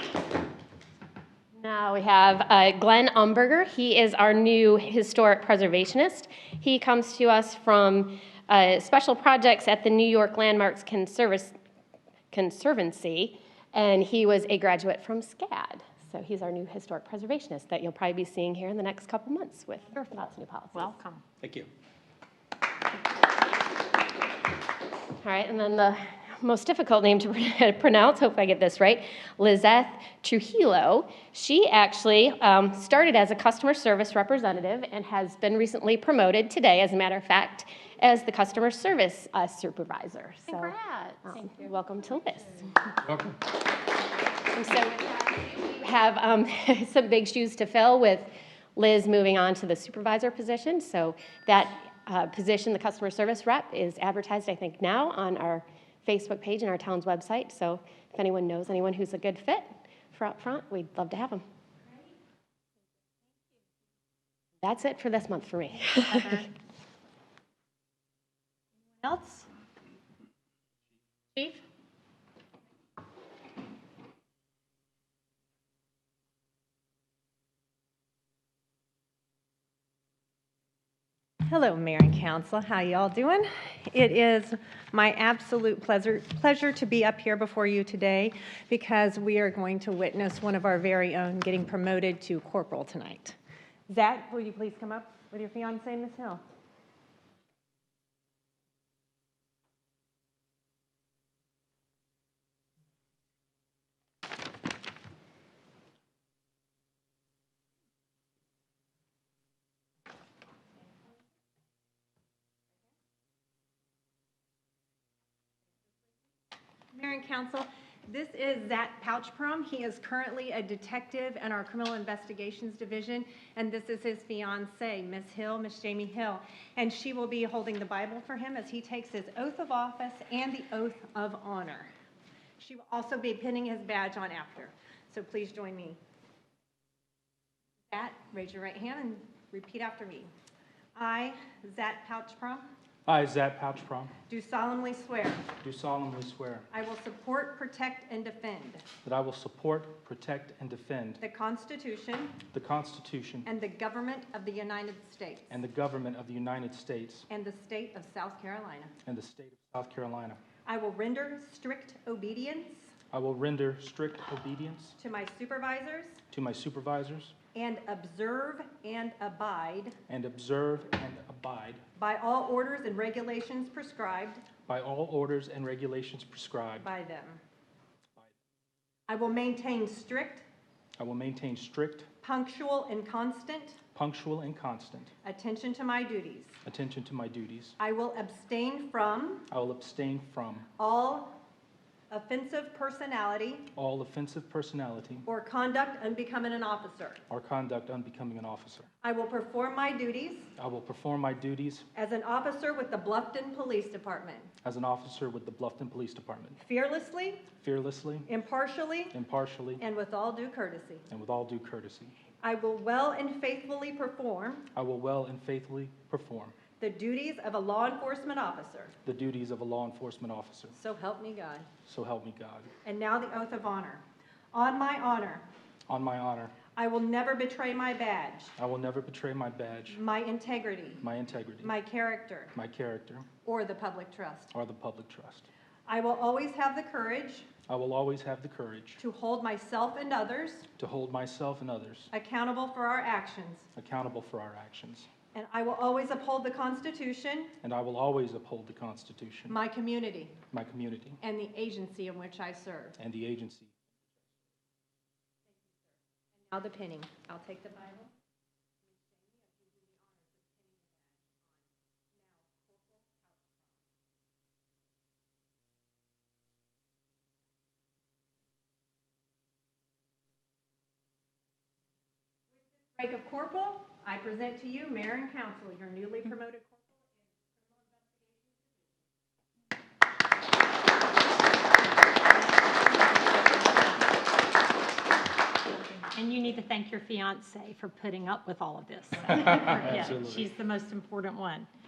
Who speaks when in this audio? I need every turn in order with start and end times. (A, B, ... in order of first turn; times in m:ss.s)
0:01.6-0:11.5 A
0:12.3-0:21.0 A
0:20.7-0:21.2 B
0:21.4-0:21.7 C
0:25.2-0:42.8 A
0:40.5-0:41.4 B
0:44.5-1:01.4 A
1:04.6-1:06.4 A
1:06.1-1:06.5 D
1:09.0-1:09.5 D
1:21.5-1:33.4 D
1:33.9-1:36.4 D
1:56.9-2:11.9 D
2:12.6-2:16.0 D
2:17.9-2:20.3 D
2:21.0-2:22.7 D
2:23.1-2:24.1 C
2:24.3-2:25.5 D
2:25.6-2:26.7 C
2:26.7-2:28.8 D
2:29.0-2:31.2 C
2:31.2-2:32.4 D
2:32.5-2:33.5 C
2:33.4-2:35.6 D
2:35.5-2:37.3 C
2:37.3-2:38.9 D
2:39.0-2:40.4 C
2:40.7-2:42.9 D
2:43.1-2:45.0 C
2:45.0-2:46.2 D
2:46.3-2:47.4 C
2:47.5-2:50.0 D
2:50.1-2:51.8 C
2:52.0-2:54.4 D
2:54.7-2:56.9 C
2:56.8-2:57.4 D
2:59.1-3:00.4 D
3:01.0-3:02.1 C
3:02.2-3:03.8 D
3:04.0-3:05.1 C
3:05.2-3:06.6 D
3:06.6-3:07.8 C
3:07.8-3:09.4 D
3:09.5-3:10.7 C
3:10.8-3:11.4 D
3:12.1-3:13.7 D
3:13.8-3:15.3 C
3:15.3-3:17.2 D
3:17.3-3:18.9 C
3:19.0-3:20.5 D
3:20.6-3:21.9 C
3:22.0-3:24.5 D
3:24.6-3:26.6 C
3:26.6-3:27.5 D
3:27.6-3:28.3 C
3:28.3-3:29.1 D
3:29.1-3:29.8 C
3:29.8-3:31.1 D
3:31.1-3:32.2 C
3:32.4-3:34.6 D
3:34.7-3:36.6 C
3:36.8-3:38.9 D
3:39.0-3:40.8 C
3:40.7-3:41.7 D
3:41.8-3:42.7 C
3:42.8-3:45.5 D
3:45.9-3:46.6 C
3:46.8-3:48.5 D
3:48.6-3:50.0 C
3:49.9-3:51.0 D
3:51.0-3:51.7 C
3:51.6-3:52.5 D
3:52.6-3:53.3 C
3:53.4-3:54.5 D
3:54.5-3:55.5 C
3:55.9-3:57.5 D
3:57.7-3:59.0 C
3:59.0-4:00.7 D
4:00.8-4:02.1 C
4:02.1-4:03.7 D
4:03.8-4:05.1 C
4:05.3-4:07.6 D
4:07.6-4:09.6 C
4:09.5-4:10.4 D
4:10.5-4:11.2 C
4:11.2-4:13.0 D
4:13.0-4:13.9 C
4:15.5-4:18.1 D
4:18.8-4:23.8 D
4:32.6-4:37.1 D
4:37.8-4:38.7 D
4:43.2-4:43.7 B
4:46.0-4:51.7 B
4:49.3-4:50.5 C